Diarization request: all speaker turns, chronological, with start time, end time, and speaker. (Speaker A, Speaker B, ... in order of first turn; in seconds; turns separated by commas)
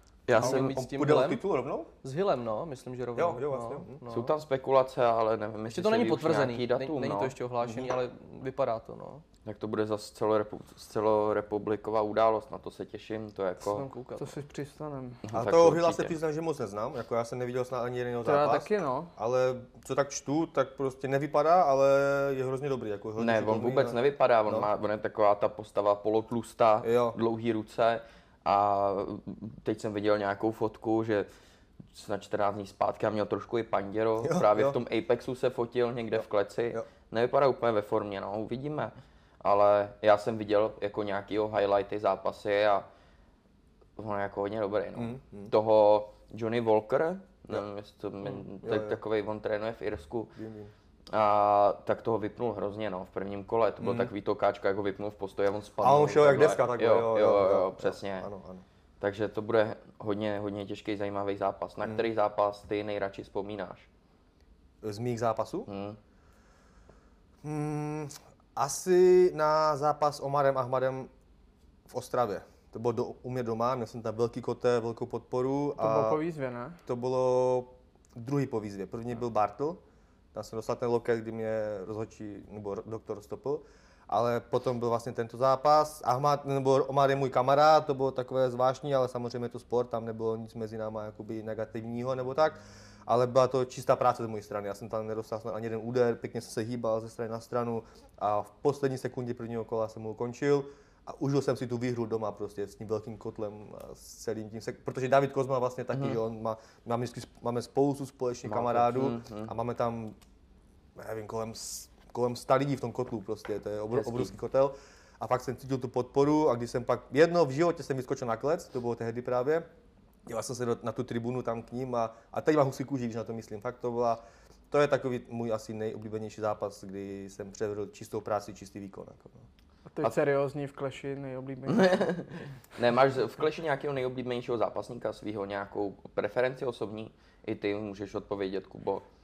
Speaker A: 0.3-0.8, Speaker B: 0.4-1.4, Speaker C: 0.4-1.9, Speaker B: 2.0-4.3, Speaker C: 3.2-4.0, Speaker A: 4.1-7.3, Speaker B: 5.7-9.2, Speaker A: 9.4-13.9, Speaker B: 13.7-14.4, Speaker D: 14.2-15.2, Speaker A: 15.2-16.1, Speaker C: 15.3-24.7, Speaker D: 18.2-19.1, Speaker A: 23.2-31.3, Speaker C: 26.8-27.2, Speaker A: 31.9-42.9, Speaker C: 34.2-34.8, Speaker A: 44.0-50.3, Speaker C: 45.0-45.5, Speaker C: 48.6-49.0, Speaker C: 50.4-50.7, Speaker A: 51.1-58.3, Speaker C: 53.8-54.1, Speaker C: 55.8-58.6, Speaker A: 59.0-63.9, Speaker C: 64.8-65.7, Speaker A: 65.7-66.0, Speaker C: 67.4-71.1, Speaker C: 71.9-76.2, Speaker D: 75.8-76.8, Speaker C: 76.9-79.8, Speaker C: 80.3-110.2, Speaker A: 108.5-109.5, Speaker C: 111.0-119.7, Speaker A: 113.9-114.3, Speaker C: 120.3-124.2, Speaker C: 124.7-129.4, Speaker D: 129.9-131.9, Speaker A: 131.7-139.0